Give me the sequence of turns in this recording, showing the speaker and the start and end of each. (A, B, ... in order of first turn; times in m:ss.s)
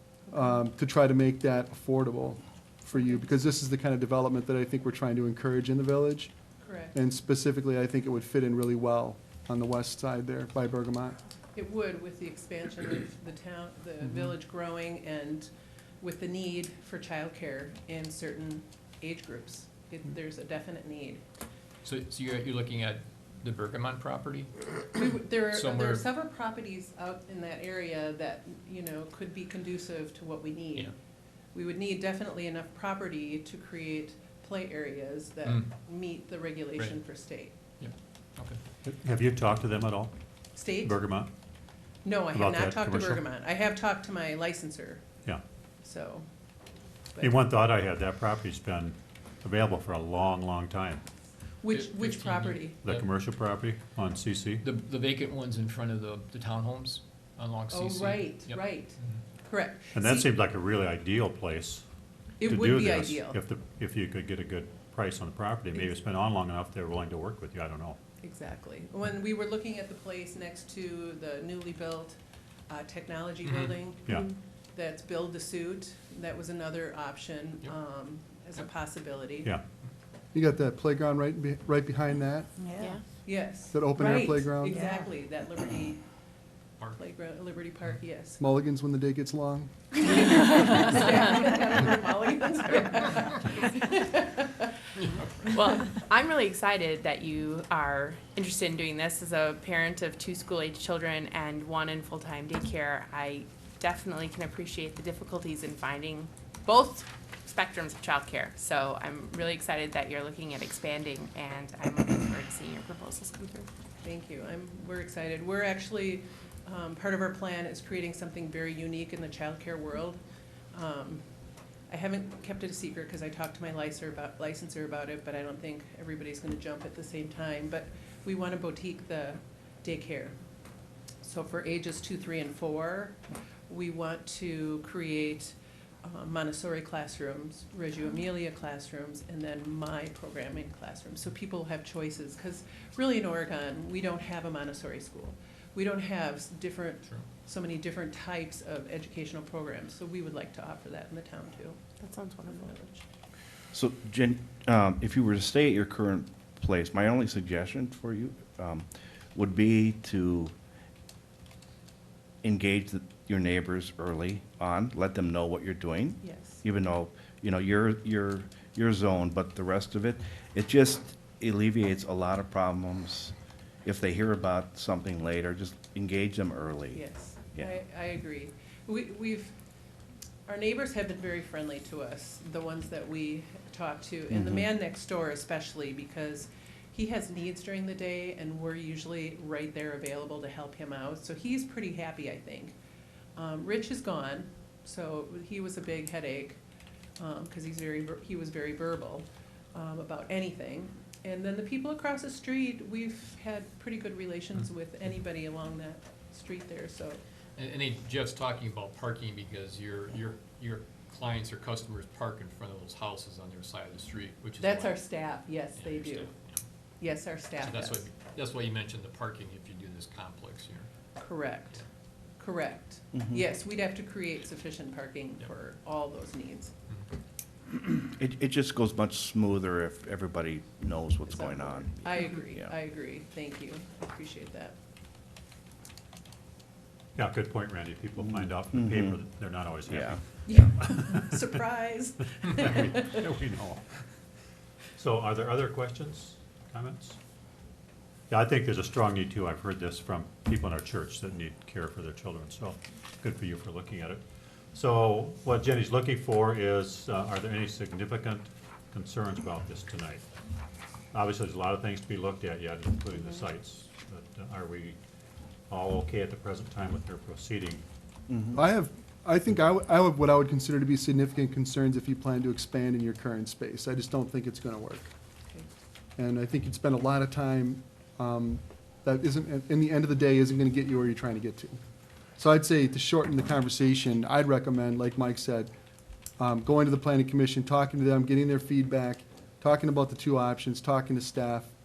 0:00.3-0:06.3 A
0:06.6-0:06.9 B
0:06.9-0:11.2 A
0:11.6-0:15.5 B
0:16.0-0:21.2 B
0:21.8-0:26.1 C
0:24.9-0:30.9 B
0:31.5-0:37.6 B
0:37.8-0:38.6 C
0:38.8-0:40.1 D
0:40.6-0:41.0 B
0:40.6-0:41.3 D
0:42.0-0:45.0 B
0:42.3-0:43.2 D
0:45.8-0:46.2 B
0:47.2-0:51.0 D
0:51.6-0:52.8 B
0:51.7-0:53.0 C
0:52.8-0:54.7 D
0:54.6-0:59.2 C
0:57.7-1:00.3 B
0:59.9-1:01.8 D
1:02.4-1:03.4 B
1:02.4-1:08.0 D
1:08.2-1:12.2 B
1:12.7-1:14.1 B
1:13.4-1:13.7 C
1:14.1-1:14.3 D
1:14.7-1:19.5 B
1:20.3-1:22.5 A
1:22.8-1:23.0 E
1:23.2-1:26.0 B
1:23.7-1:24.8 A
1:27.0-1:28.4 B
1:28.4-1:30.8 A
1:29.9-1:34.7 B
1:35.0-1:35.5 C
1:35.5-1:53.7 E
1:54.0-2:00.2 B
2:00.7-2:01.2 B
2:01.9-2:10.3 B
2:11.2-2:13.2 B
2:13.7-2:31.8 B
2:32.0-2:32.7 E
2:32.5-2:33.0 B
2:33.7-2:40.5 F
2:42.4-2:53.3 F
2:46.2-2:46.6 B
2:53.8-2:57.0 F
2:56.9-2:59.6 B
3:00.5-3:12.8 B
3:04.3-3:04.6 F
3:13.4-3:16.6 B
3:17.2-3:27.2 B
3:27.6-3:35.1 C
3:34.6-3:36.3 B
3:35.8-3:36.6 C
3:37.0-3:38.1 B
3:37.6-3:40.9 C
3:41.2-3:41.8 B
3:42.4-3:46.7 B
3:43.2-3:43.4 F
3:47.7-3:52.7 F
3:51.3-3:54.8 B
3:57.2-4:01.5 D
3:58.2-3:59.2 F
3:59.9-4:00.2 F
4:00.4-4:03.2 B
4:02.5-4:03.8 D
4:05.0-4:07.2 D
4:08.3-4:14.2 D
4:14.7-4:20.3 D
4:21.1-4:25.0 D
4:25.7-4:27.8 D
4:28.3-4:28.6 F
4:28.5-4:35.1 A
4:36.2-4:41.8 A
4:42.4-4:45.7 A
4:46.4-4:51.7 A